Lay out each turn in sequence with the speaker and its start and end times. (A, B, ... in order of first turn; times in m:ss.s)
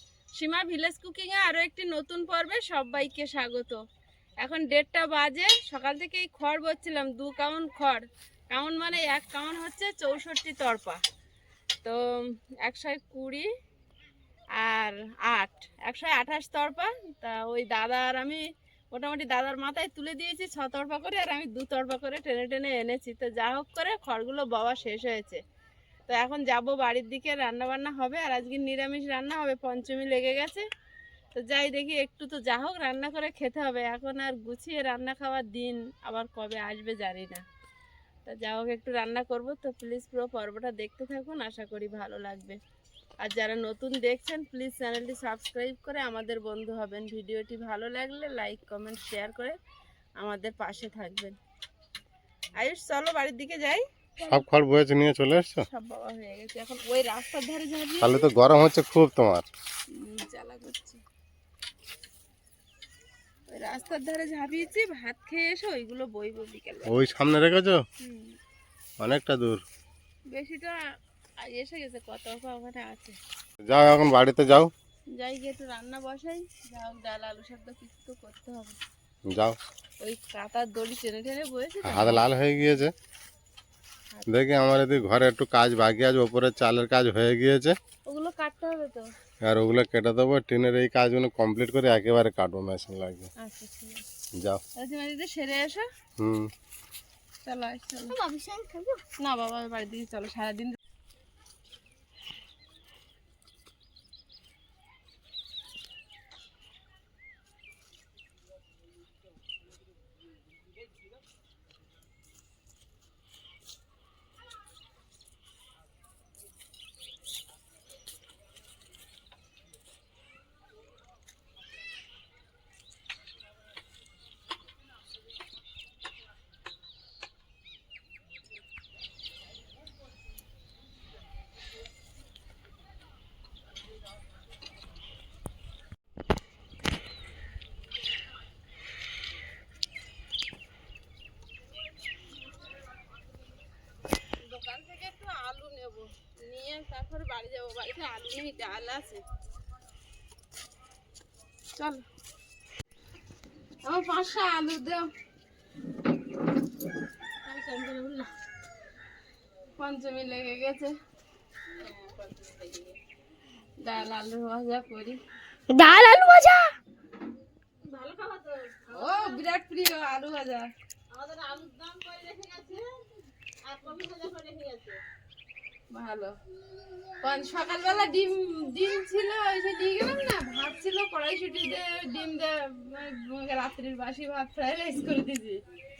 0:00.4-0:03.8 A
0:04.4-0:11.0 A
0:12.6-0:13.5 A
0:14.6-0:25.4 A
0:26.1-0:30.6 A
0:31.3-0:37.4 A
0:38.2-0:42.6 A
0:43.2-0:49.6 A
0:50.2-0:51.4 A
0:52.6-0:54.3 A
0:54.3-0:55.7 B
0:55.7-0:58.3 A
0:58.0-0:59.5 B
0:59.9-1:01.0 A
1:03.5-1:06.9 A
1:06.9-1:07.8 B
1:08.0-1:08.4 A
1:09.0-1:09.6 B
1:10.3-1:10.8 A
1:11.4-1:13.2 A
1:13.7-1:14.7 B
1:15.1-1:18.8 A
1:19.3-1:19.6 B
1:20.0-1:22.2 A
1:21.8-1:22.9 B
1:24.3-1:27.8 B
1:28.0-1:29.1 A
1:29.4-1:33.3 B
1:33.4-1:34.0 A
1:34.4-1:34.6 B
1:34.8-1:35.9 A
1:36.2-1:36.5 B
1:37.4-1:38.2 A
1:38.1-1:39.0 C
1:39.2-1:40.8 A
2:24.4-2:29.2 A
2:31.8-2:32.0 A
2:33.8-2:35.1 A
2:37.5-2:38.3 A
2:39.8-2:40.9 A
2:41.8-2:42.9 A
2:43.8-2:45.2 A
2:45.7-2:46.7 C
2:48.1-2:50.7 A
2:51.4-2:52.8 A
2:53.7-2:54.9 A
2:55.9-2:56.3 A
2:57.2-3:05.6 A